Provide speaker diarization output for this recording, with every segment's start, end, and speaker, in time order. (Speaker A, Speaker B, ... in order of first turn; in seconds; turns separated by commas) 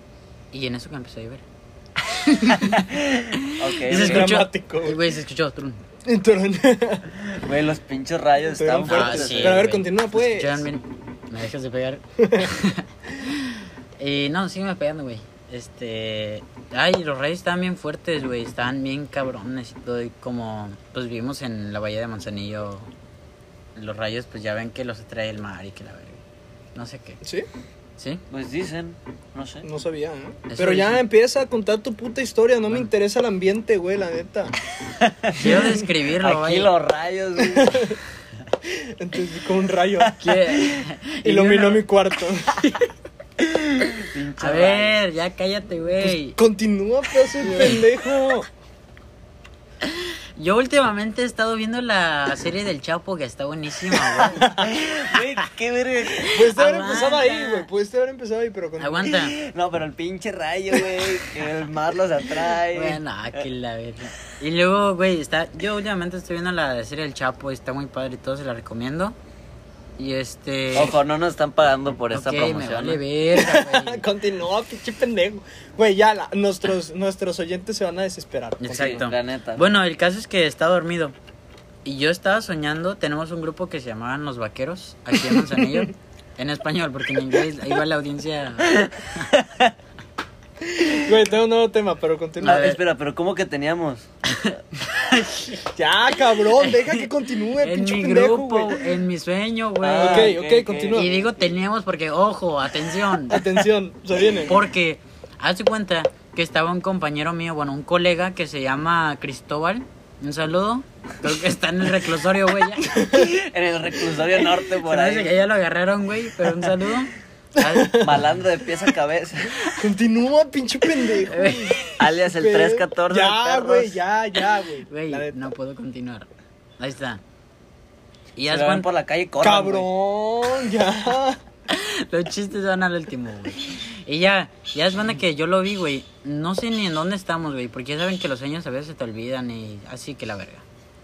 Speaker A: 0.5-1.4, Speaker A: 2.1-2.8, Speaker B: 2.8-4.3, Speaker A: 3.4-5.8, Speaker C: 3.9-5.0, Speaker C: 6.0-7.2, Speaker B: 7.3-9.6, Speaker C: 8.6-10.7, Speaker A: 8.9-22.9, Speaker C: 12.2-12.5, Speaker A: 23.8-26.2, Speaker A: 26.8-27.2, Speaker C: 27.2-27.5, Speaker B: 28.3-29.6, Speaker C: 29.6-34.5, Speaker A: 30.5-31.0, Speaker B: 35.0-37.9, Speaker A: 35.4-36.7, Speaker C: 35.5-35.8, Speaker C: 37.4-38.0, Speaker C: 38.6-40.2, Speaker A: 40.2-41.9, Speaker C: 41.2-42.6, Speaker A: 42.6-42.9, Speaker B: 43.8-45.0, Speaker A: 44.4-46.4, Speaker C: 46.0-48.5, Speaker A: 47.5-47.8, Speaker A: 49.9-55.2, Speaker B: 54.1-56.4, Speaker C: 54.4-54.7, Speaker A: 56.2-57.7, Speaker C: 56.3-59.2, Speaker A: 58.8-59.4, Speaker B: 59.1-63.5, Speaker A: 62.7-69.2, Speaker A: 70.0-71.0, Speaker B: 70.7-73.0, Speaker A: 72.1-74.0, Speaker C: 73.3-79.1, Speaker A: 78.6-81.2, Speaker B: 78.7-79.6, Speaker A: 81.8-89.2, Speaker C: 85.3-85.9, Speaker B: 88.7-89.7, Speaker C: 91.0-92.7, Speaker A: 92.4-92.8, Speaker B: 92.4-94.1, Speaker A: 94.3-95.7, Speaker C: 95.8-98.9, Speaker A: 96.5-100.4, Speaker B: 99.8-101.6, Speaker C: 99.9-101.1, Speaker A: 100.9-103.6, Speaker C: 103.3-104.6, Speaker A: 104.5-113.0, Speaker C: 112.8-113.4, Speaker B: 113.1-115.4, Speaker A: 114.8-118.3, Speaker C: 117.6-118.2, Speaker B: 118.0-119.6, Speaker C: 119.6-125.4, Speaker A: 121.2-121.8, Speaker B: 121.9-124.0, Speaker A: 124.9-127.2, Speaker A: 128.4-128.9, Speaker B: 128.5-129.9, Speaker C: 129.4-131.4, Speaker A: 131.7-140.6